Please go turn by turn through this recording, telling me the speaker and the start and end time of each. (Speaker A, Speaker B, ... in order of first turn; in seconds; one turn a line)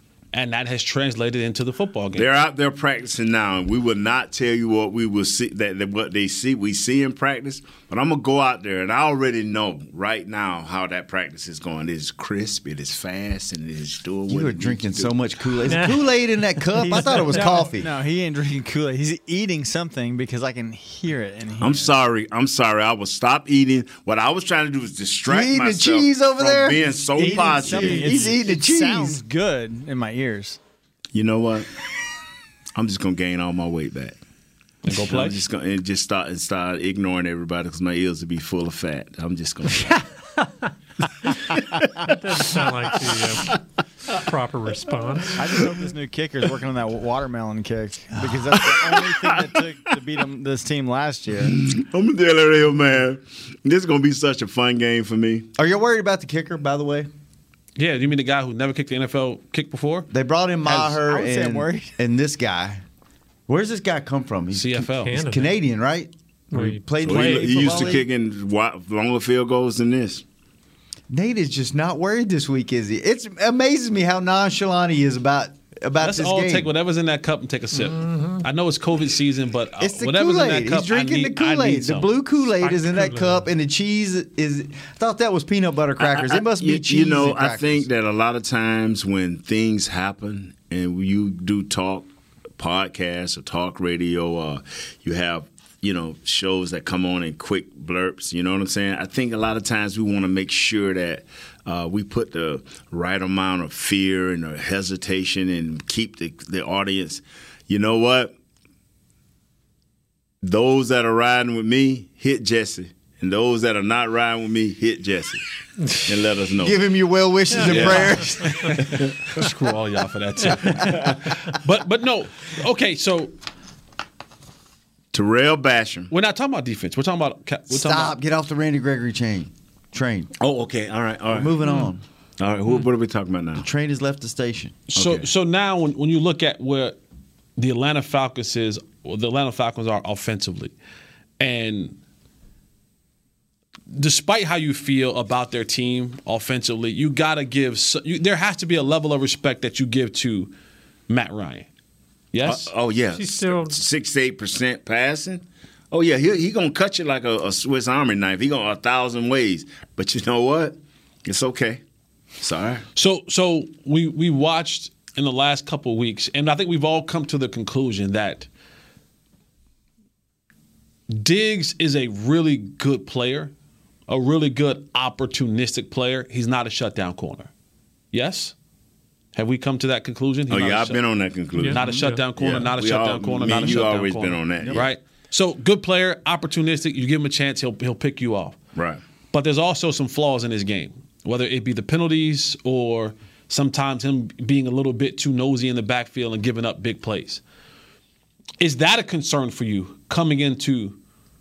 Speaker A: 0.3-2.3
Speaker B: 2.1-15.2
Speaker C: 14.3-17.9
Speaker D: 15.7-16.0
Speaker D: 16.8-17.3
Speaker E: 16.8-21.9
Speaker B: 21.6-28.3
Speaker C: 25.3-29.2
Speaker E: 27.1-30.6
Speaker B: 31.1-31.7
Speaker B: 32.7-34.2
Speaker A: 34.8-35.4
Speaker B: 34.9-40.0
Speaker D: 42.0-45.4
Speaker E: 45.4-51.5
Speaker C: 48.2-48.5
Speaker B: 48.5-49.5
Speaker B: 51.4-55.5
Speaker C: 55.5-57.1
Speaker A: 57.8-60.1
Speaker C: 60.1-62.8
Speaker E: 60.6-61.9
Speaker C: 63.5-68.0
Speaker A: 64.5-65.2
Speaker D: 65.0-65.5
Speaker D: 66.5-67.9
Speaker B: 67.0-70.2
Speaker C: 71.1-76.7
Speaker A: 76.0-82.1
Speaker D: 77.8-78.4
Speaker C: 79.8-87.9
Speaker D: 82.6-83.5
Speaker B: 86.0-108.3
Speaker B: 110.4-115.4
Speaker B: 115.9-116.8
Speaker C: 116.6-118.8
Speaker D: 117.6-118.7
Speaker B: 117.6-118.2
Speaker B: 118.8-119.1
Speaker A: 119.3-123.3
Speaker B: 125.1-126.1
Speaker A: 126.1-128.1
Speaker C: 127.7-130.3
Speaker B: 130.4-131.6
Speaker C: 131.3-132.0
Speaker B: 132.4-133.7
Speaker C: 133.6-134.8
Speaker A: 134.9-137.0
Speaker B: 134.9-135.2
Speaker A: 137.6-140.7
Speaker A: 141.4-142.0
Speaker A: 143.9-150.5
Speaker A: 151.1-151.7
Speaker A: 152.3-152.7
Speaker B: 152.4-161.8
Speaker D: 153.1-153.8
Speaker B: 162.4-162.8
Speaker A: 162.9-168.5
Speaker A: 171.1-173.5
Speaker A: 174.1-177.5
Speaker A: 178.1-178.5
Speaker A: 179.3-181.0
Speaker B: 180.5-184.8
Speaker D: 181.6-182.2
Speaker A: 181.7-188.6
Speaker B: 188.7-189.0
Speaker A: 189.3-197.4
Speaker A: 198.6-201.0